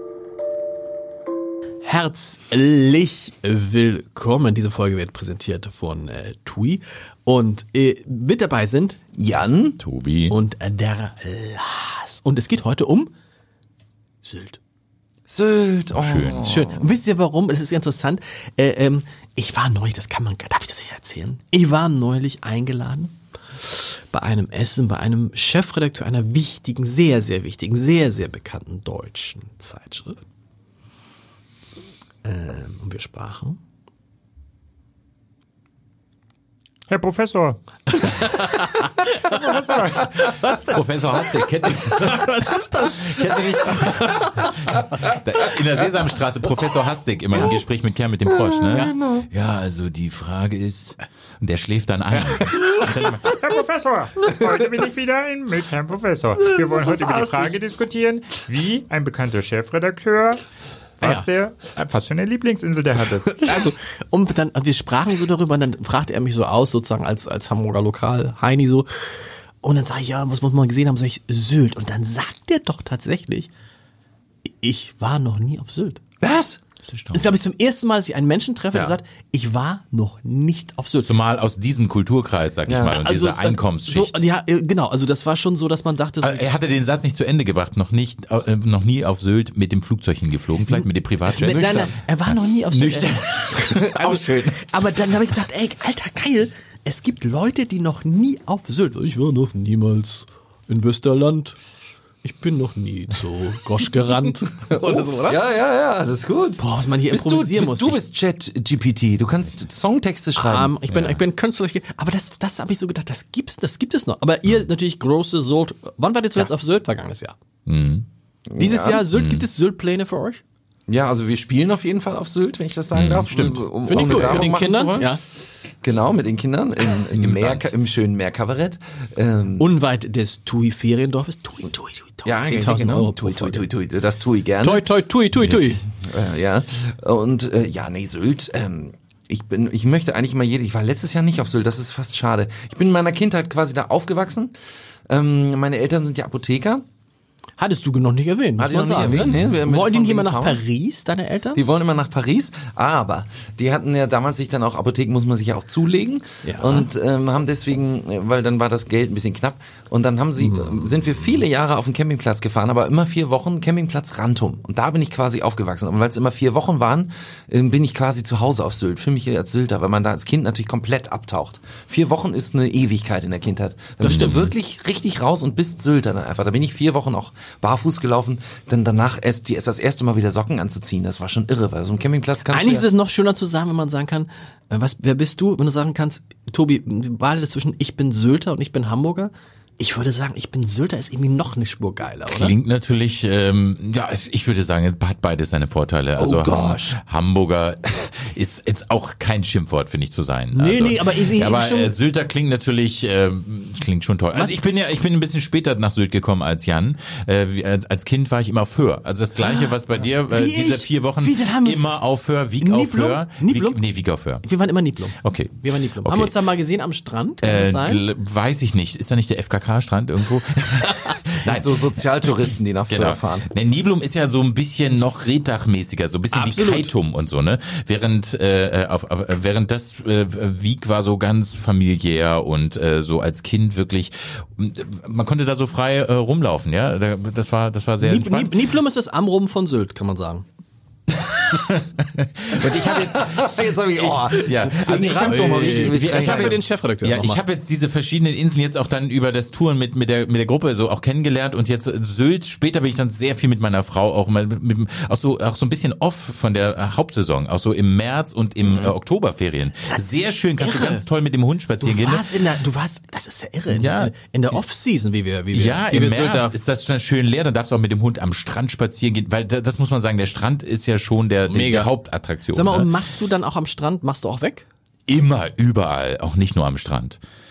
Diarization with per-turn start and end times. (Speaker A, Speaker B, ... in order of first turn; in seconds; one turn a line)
Speaker A: 1.8-9.0
Speaker B: 9.2-9.8
Speaker C: 9.8-10.3
Speaker A: 10.3-13.1
Speaker A: 14.2-14.6
Speaker B: 15.3-16.8
Speaker C: 15.9-16.6
Speaker A: 16.4-30.2
Speaker A: 32.2-33.6
Speaker D: 36.9-37.6
Speaker A: 37.9-39.4
Speaker D: 39.2-40.1
Speaker C: 40.3-53.3
Speaker A: 42.2-44.0
Speaker B: 48.6-49.2
Speaker D: 53.2-60.4
Speaker D: 61.0-63.5
Speaker A: 63.4-68.9
Speaker A: 69.6-73.5
Speaker A: 74.5-76.0
Speaker B: 76.2-76.6
Speaker C: 76.8-77.3
Speaker A: 77.1-81.2
Speaker C: 81.0-84.2
Speaker B: 82.7-83.0
Speaker A: 82.8-86.5
Speaker C: 86.2-93.9
Speaker A: 91.3-101.6
Speaker B: 91.4-91.9
Speaker B: 93.7-94.6
Speaker A: 102.2-105.4
Speaker B: 104.7-110.7
Speaker A: 106.6-108.0
Speaker A: 110.3-117.3
Speaker C: 110.9-111.2
Speaker C: 117.7-118.1
Speaker B: 118.5-119.0
Speaker A: 118.6-120.4
Speaker C: 119.1-119.4
Speaker B: 120.9-125.1
Speaker C: 122.9-124.3
Speaker A: 123.8-125.2
Speaker B: 125.8-129.7
Speaker C: 127.1-127.7
Speaker A: 129.6-133.7
Speaker B: 132.2-134.9
Speaker A: 134.6-135.8
Speaker B: 135.5-144.5
Speaker B: 145.1-146.8
Speaker A: 147.6-151.6
Speaker B: 148.6-150.6
Speaker B: 151.5-182.8
Speaker A: 156.4-156.9
Speaker A: 174.0-174.4
Speaker C: 174.0-174.5
Speaker A: 182.5-192.6
Speaker C: 192.3-214.4
Speaker B: 196.2-197.0
Speaker A: 200.5-201.9
Speaker A: 209.4-211.9
Speaker A: 212.6-213.8
Speaker A: 214.4-218.0
Speaker C: 215.2-216.4
Speaker C: 217.4-221.8
Speaker B: 221.4-223.5
Speaker C: 222.9-238.6
Speaker A: 226.3-226.9
Speaker A: 238.0-240.4
Speaker C: 241.2-262.3
Speaker B: 242.6-246.6
Speaker A: 245.1-247.4
Speaker A: 260.6-261.0
Speaker A: 261.8-266.6
Speaker C: 263.7-264.6
Speaker C: 265.5-272.9
Speaker A: 271.4-271.9
Speaker A: 272.5-274.6
Speaker C: 275.1-277.2